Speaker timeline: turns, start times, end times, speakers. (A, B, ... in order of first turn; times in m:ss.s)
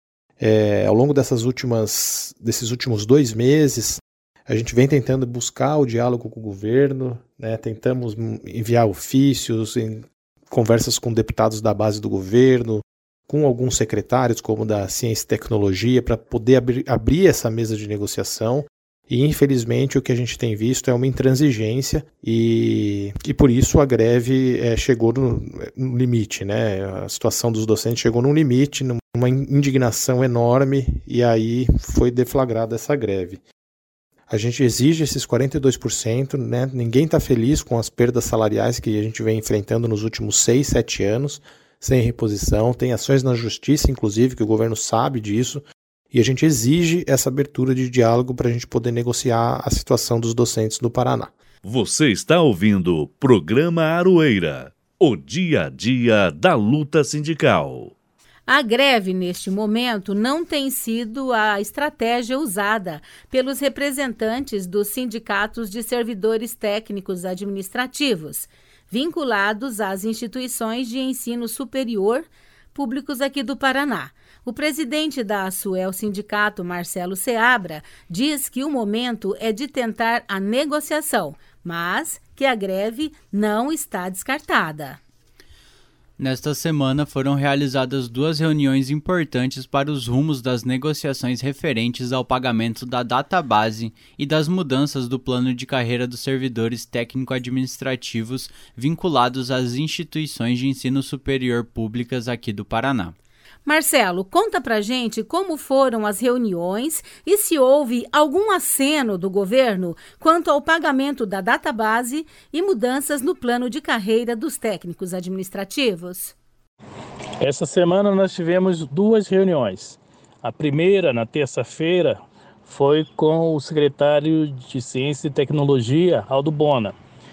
0:00.4-0:33.4 A
0:34.3-0:51.3 A
0:51.6-0:57.9 B
0:58.5-1:25.0 C
1:26.2-1:43.2 D
1:43.7-1:56.4 C
1:57.4-2:07.0 E